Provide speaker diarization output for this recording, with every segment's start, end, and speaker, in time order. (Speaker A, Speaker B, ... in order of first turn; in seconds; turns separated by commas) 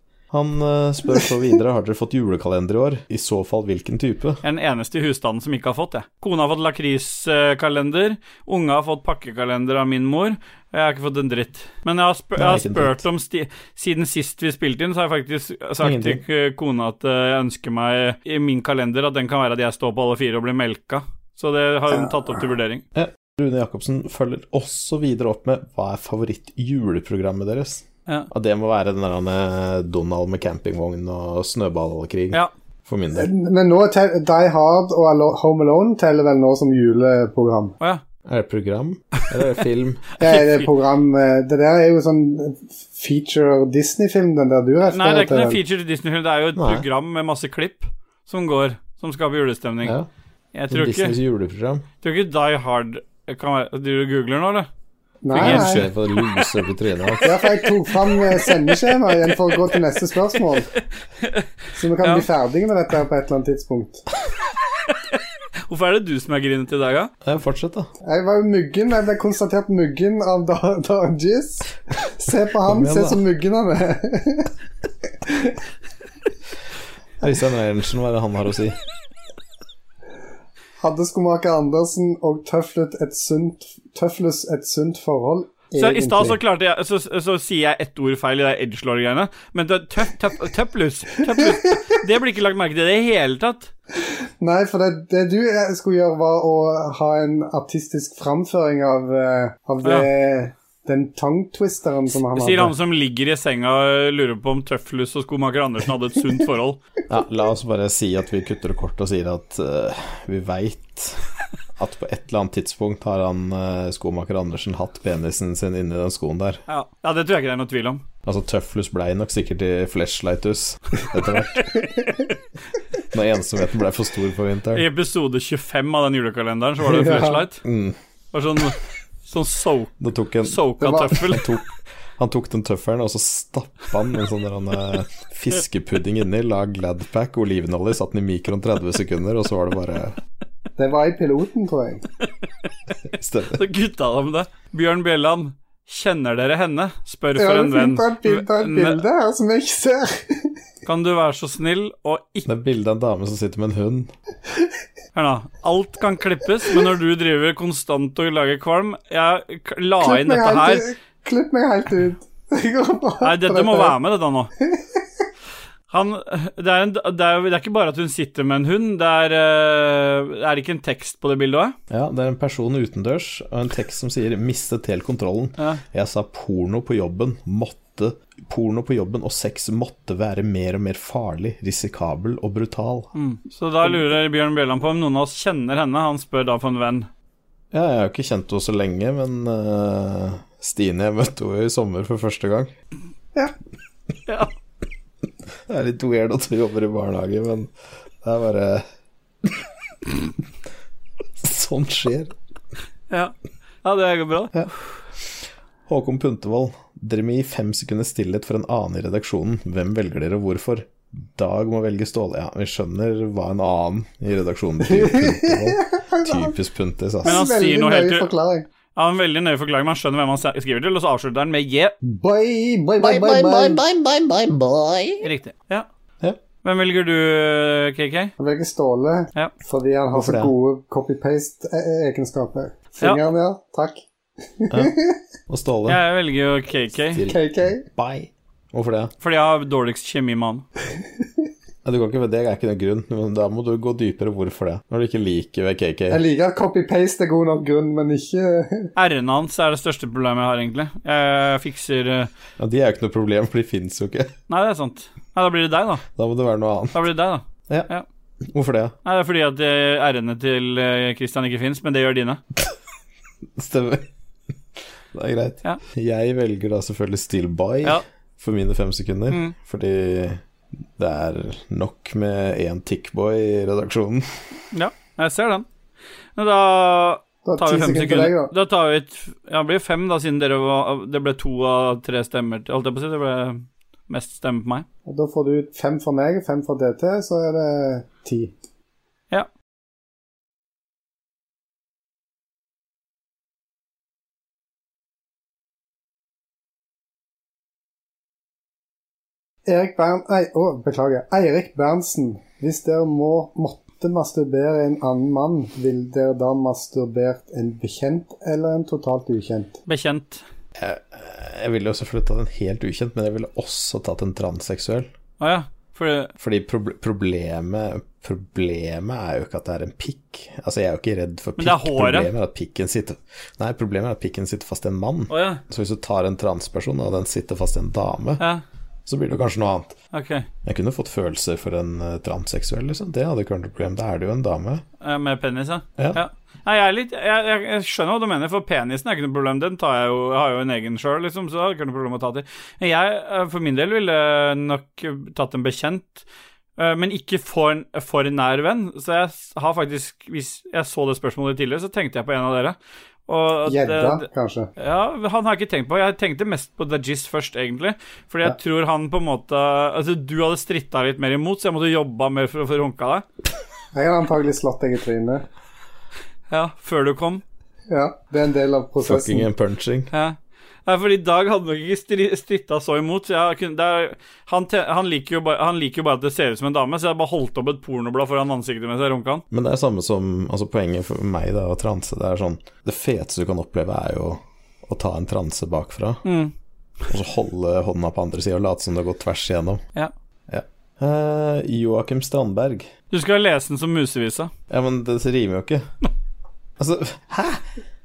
Speaker A: 0.3-4.4, Speaker B: 4.4-22.8, Speaker A: 12.4-13.1, Speaker A: 15.8-16.2, Speaker A: 22.9-33.3, Speaker C: 33.1-37.8, Speaker A: 38.3-40.0, Speaker C: 40.2-45.6, Speaker B: 40.2-40.6, Speaker B: 44.9-50.0, Speaker A: 46.6-46.9, Speaker B: 50.5-51.2, Speaker A: 50.7-51.9, Speaker B: 52.0-54.7, Speaker C: 55.2-55.9, Speaker B: 55.3-56.5, Speaker A: 55.4-57.4, Speaker C: 57.2-60.7, Speaker B: 57.4-58.9, Speaker B: 61.2-61.5, Speaker C: 61.8-64.1, Speaker B: 64.7-67.1, Speaker A: 67.2-67.9, Speaker C: 68.0-74.5, Speaker A: 72.7-73.2, Speaker C: 75.2-75.6, Speaker A: 77.2-78.8, Speaker C: 80.8-86.4, Speaker B: 85.8-93.7, Speaker C: 91.4-91.8, Speaker C: 94.4-102.7, Speaker B: 102.3-106.8, Speaker A: 107.1-111.2, Speaker A: 111.8-116.6, Speaker B: 116.7-118.0, Speaker A: 118.2-121.7, Speaker B: 121.5-122.3, Speaker A: 123.1-124.8, Speaker B: 124.7-127.6, Speaker C: 126.9-127.4, Speaker A: 127.6-128.0, Speaker B: 128.3-131.5, Speaker A: 130.0-131.7, Speaker C: 130.8-131.1, Speaker A: 132.2-140.2, Speaker C: 140.8-142.0, Speaker A: 143.1-143.6, Speaker B: 143.5-149.0, Speaker C: 147.4-150.5, Speaker B: 150.8-152.5, Speaker A: 152.5-154.1, Speaker B: 155.2-160.9, Speaker C: 160.0-164.0, Speaker B: 163.2-164.5, Speaker C: 164.6-165.0, Speaker B: 165.9-171.8, Speaker A: 171.9-183.1, Speaker B: 183.2-187.1, Speaker A: 187.7-192.7, Speaker A: 195.7-198.8, Speaker A: 199.4-200.3, Speaker A: 201.4-202.3, Speaker B: 203.1-204.7, Speaker A: 205.9-217.4, Speaker C: 214.9-216.5, Speaker C: 217.2-218.7, Speaker B: 217.2-218.3, Speaker B: 218.9-221.9, Speaker C: 222.0-223.8, Speaker A: 223.0-225.3, Speaker B: 225.2-225.9, Speaker B: 226.6-228.3, Speaker C: 228.4-235.2, Speaker A: 230.1-230.5, Speaker A: 235.5-236.0, Speaker B: 235.9-237.2, Speaker A: 237.1-239.1, Speaker C: 237.3-237.8, Speaker B: 239.2-240.7, Speaker A: 241.8-246.2, Speaker C: 246.1-248.9, Speaker B: 249.0-252.3, Speaker A: 252.6-254.3, Speaker B: 254.5-256.0, Speaker A: 256.1-257.0, Speaker B: 256.9-258.1, Speaker A: 258.4-259.0, Speaker B: 259.1-262.4, Speaker A: 263.6-264.1, Speaker A: 264.8-270.4, Speaker B: 269.3-269.6, Speaker A: 271.0-274.4, Speaker B: 274.7-275.7, Speaker B: 276.4-284.9, Speaker C: 277.4-278.5, Speaker C: 285.1-288.6, Speaker C: 299.7-309.8, Speaker B: 309.9-310.4, Speaker A: 310.8-315.1, Speaker B: 315.4-316.3, Speaker A: 316.4-328.4, Speaker B: 321.6-322.3, Speaker B: 325.3-325.6, Speaker A: 329.1-330.0, Speaker B: 330.1-330.5, Speaker A: 330.6-334.8, Speaker B: 335.0-346.2, Speaker B: 346.8-363.2, Speaker C: 353.7-354.7, Speaker C: 363.9-365.5, Speaker B: 366.5-367.4, Speaker C: 367.9-369.5, Speaker A: 369.1-370.1, Speaker B: 370.1-379.4, Speaker A: 379.5-386.2, Speaker B: 386.2-386.5, Speaker A: 387.1-389.8, Speaker A: 390.5-392.9, Speaker B: 393.1-394.5, Speaker A: 394.7-395.9, Speaker A: 396.8-397.7